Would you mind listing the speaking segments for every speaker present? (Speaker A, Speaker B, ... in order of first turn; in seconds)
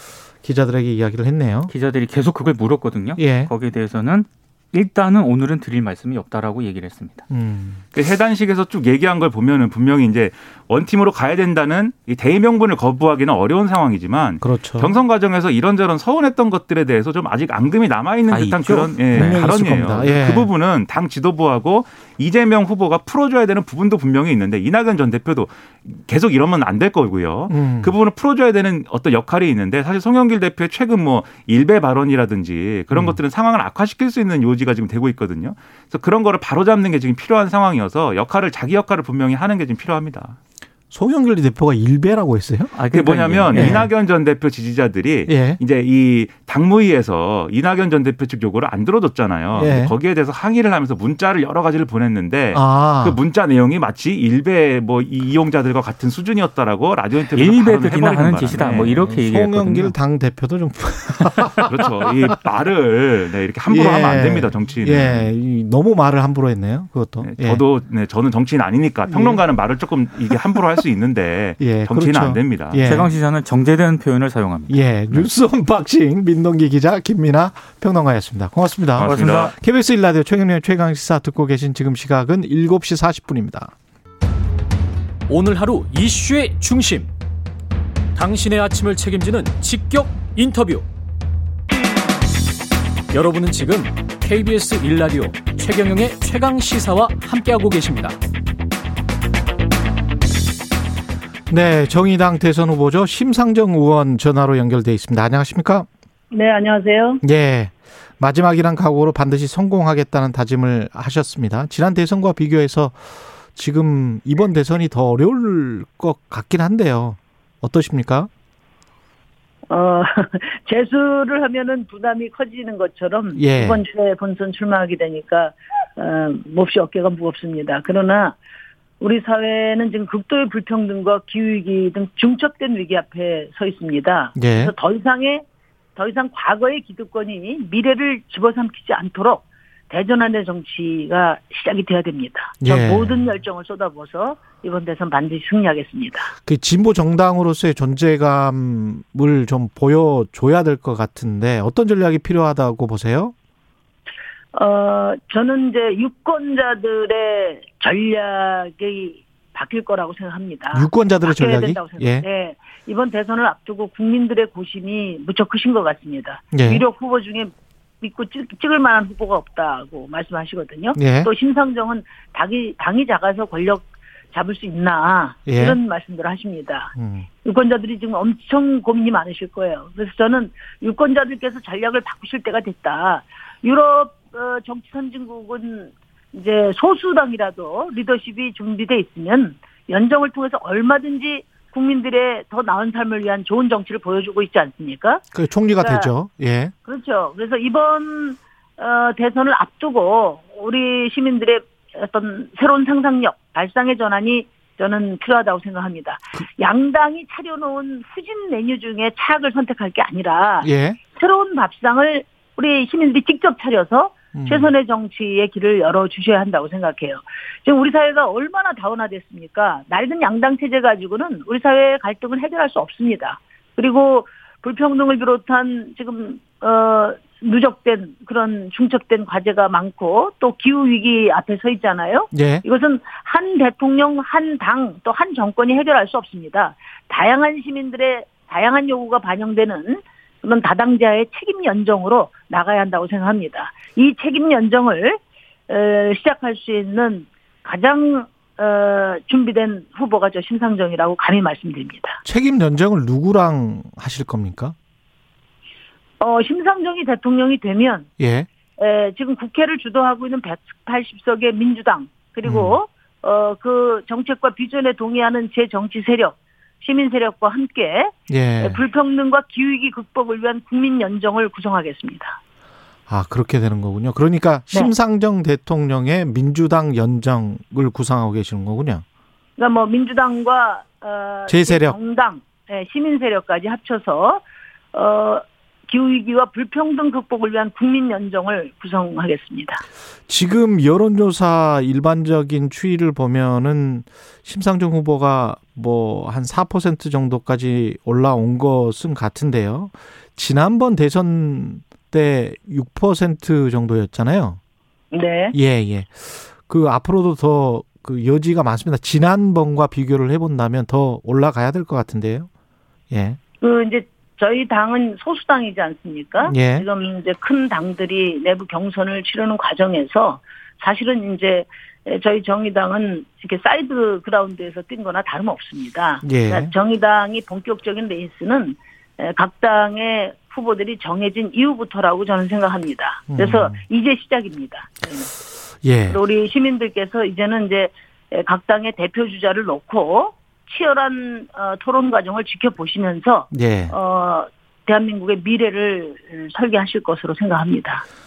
Speaker A: 0.4-1.7, 3.2-3.5, 7.3-7.8, 14.4-15.0, 19.1-20.5, 27.5-27.9, 32.9-33.2, 40.9-42.7, 43.5-43.9, 45.3-45.6, 49.5-49.9, 52.5-53.2, 58.6-62.3, 63.7-67.6, 69.1-69.4, 71.6-73.1, 74.7-83.7, 101.5-105.9, 107.2-118.3, 123.3-123.8, 134.4-134.7, 142.6-143.3, 146.4-153.3, 160.7-162.2, 166.5-166.8, 170.9-171.3, 175.5-175.8, 176.9-177.3, 195.3-196.7, 210.6-211.0, 214.3-214.7, 232.3-232.6, 252.2-254.7, 258.2-258.5, 262.4-262.8, 268.3-268.8, 273.1-279.0, 281.5-281.9, 290.3-304.6, 305.5-312.5, 313.1-313.4, 316.4-316.9, 326.2-326.7, 333.3-333.8, 335.8-336.2, 343.5-343.9
Speaker B: 1.7-7.2, 18.3-19.4, 42.8-43.8, 57.3-59.9, 72.8-75.2, 79.0-79.5
Speaker C: 7.9-40.4, 42.9-59.0, 61.6-65.3, 67.2-72.9, 79.0-79.5
Speaker D: 85.3-87.1, 88.2-90.9, 93.1-98.2
Speaker E: 106.3-107.2, 119.7-128.4, 129.0-135.4, 135.9-146.3, 154.5-176.9, 177.4-195.2, 195.8-196.1, 196.9-252.2, 256.2-258.1, 258.8-272.4, 279.6-289.8, 305.1-305.6, 313.6-335.3, 336.1-348.0